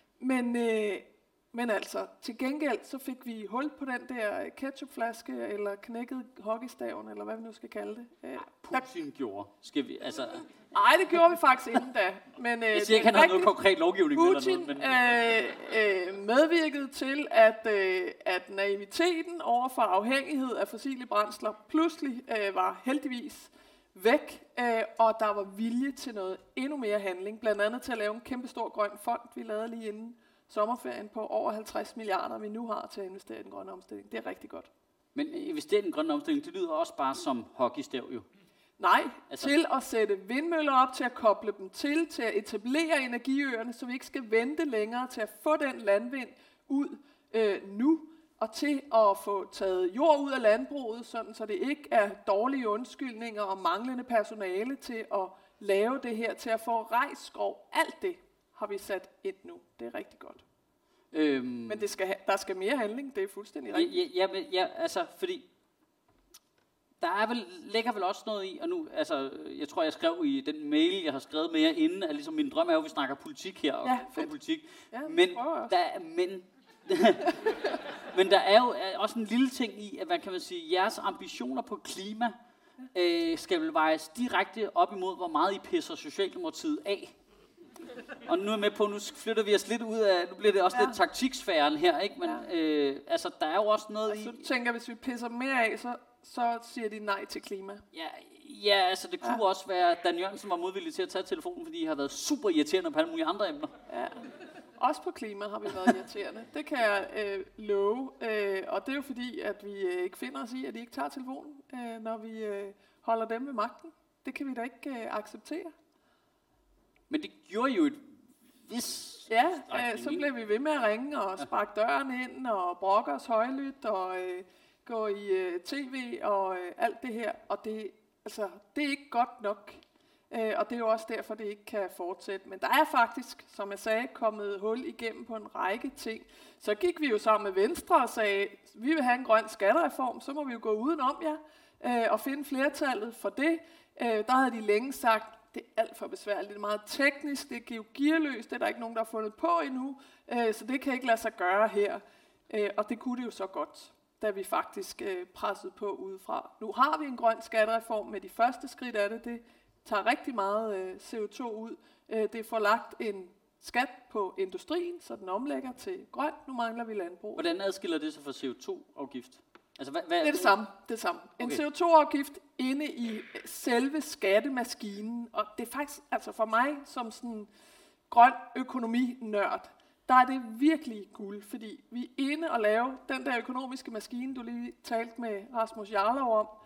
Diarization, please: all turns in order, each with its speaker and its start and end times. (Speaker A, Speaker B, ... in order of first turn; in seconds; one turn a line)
Speaker A: 0.2-8.8
Speaker B: 8.4-10.5
Speaker A: 10.7-13.5
Speaker B: 12.7-15.0
Speaker A: 14.1-34.7
Speaker B: 35.1-38.3
Speaker A: 38.8-60.4
Speaker B: 61.1-61.9
Speaker A: 61.7-64.0
Speaker B: 63.7-65.5
Speaker B: 67.0-77.4
Speaker A: 73.8-74.3
Speaker A: 74.9-75.8
Speaker B: 78.1-82.3
Speaker B: 82.9-87.2
Speaker B: 88.3-94.5
Speaker A: 90.7-91.0
Speaker A: 92.2-92.5
Speaker A: 94.1-97.8
Speaker B: 97.9-103.7
Speaker A: 103.9-115.7
Speaker B: 117.1-120.2
Speaker A: 119.3-167.5
Speaker B: 167.4-170.6
Speaker A: 170.2-177.5
Speaker A: 178.1-186.5